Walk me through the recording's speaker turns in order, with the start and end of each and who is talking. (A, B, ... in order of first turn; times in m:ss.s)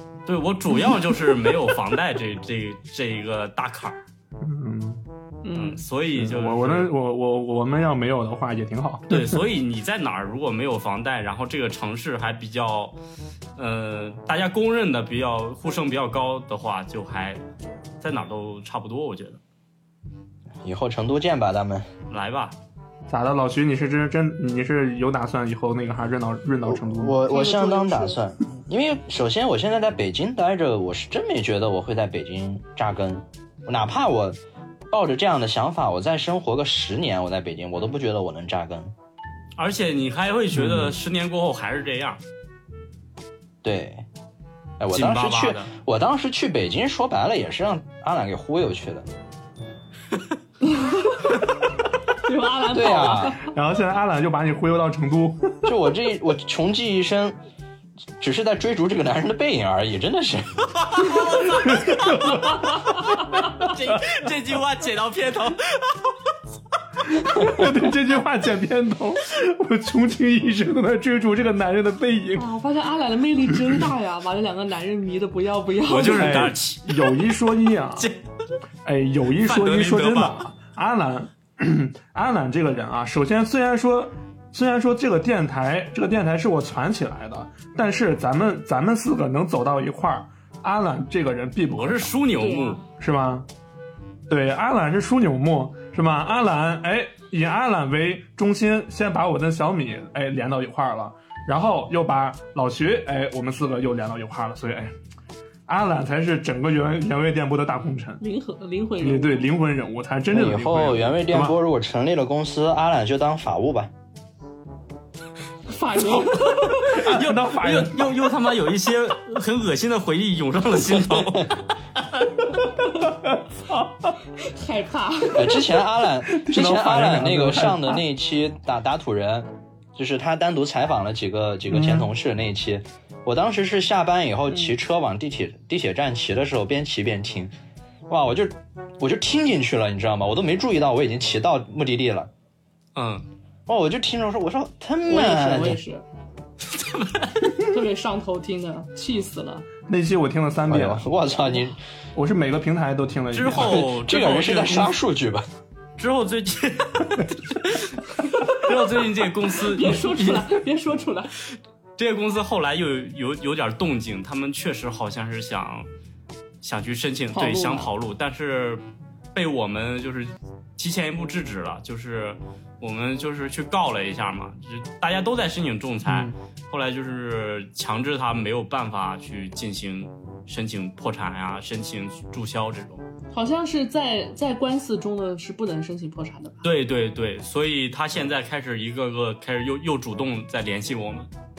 0:00.2-0:04.0 A
0:04.4-0:05.0 B
0:05.4-0:05.8 C
0:05.5-0:06.9 A
0:06.1-0:09.4 B
0:09.1-0:12.9 A
0:13.6-0:17.4 A
0:18.0-0:19.4 A
0:20.6-0:21.9 D
0:22.1-0:22.5 A
0:23.1-0:27.2 B
0:26.6-0:34.4 D
0:27.3-0:28.2 C
0:34.9-0:38.9 D
0:39.6-0:42.2 A
0:40.5-0:40.9 B
0:43.6-0:44.0 D
0:44.8-0:49.1 D
0:44.9-0:45.7 A
0:50.6-0:51.5 C
0:52.2-0:53.5 C
0:52.7-0:53.4 D
0:53.4-0:55.5 B
0:55.6-0:57.4 D
0:58.2-1:00.6 D
1:00.7-1:02.3 A
1:01.6-1:02.8 B
1:02.3-1:03.7 C
1:03.6-1:06.1 A
1:07.1-1:12.5 B
1:12.3-1:16.5 C
1:15.8-1:17.0 A
1:16.1-1:18.1 B
1:18.8-1:32.1 B
1:19.4-1:20.4 A
1:31.8-1:32.8 A
1:32.4-1:32.8 C
1:33.0-1:33.4 B
1:34.3-1:44.9 B
1:45.7-1:48.2 B
1:48.2-1:49.5 C
1:49.0-1:51.6 B
1:50.3-1:53.9 D
1:55.7-1:57.0 C
1:56.7-1:58.2 B
1:56.8-2:02.3 A
2:01.0-2:01.5 D
2:02.9-2:04.1 B
2:04.3-2:05.6 C
2:05.3-2:17.5 D
2:06.3-2:08.0 B
2:11.7-2:12.1 B
2:18.1-2:22.3 D
2:22.9-2:23.2 A
2:23.7-2:25.8 D
2:25.0-2:26.0 C
2:26.7-2:27.5 A
2:27.6-2:29.6 C
2:29.9-2:31.0 B
2:30.7-2:31.8 D
2:32.1-2:33.9 B
2:33.3-2:34.9 A
2:33.5-2:35.4 D
2:36.0-2:40.6 A
2:38.3-2:38.6 C
2:39.6-2:41.3 C
2:42.0-2:45.9 A
2:46.6-2:48.8 A
2:47.3-2:47.9 C
2:49.3-3:03.0 A
2:56.0-2:56.3 B
3:03.3-3:06.6 C
3:06.6-3:11.3 A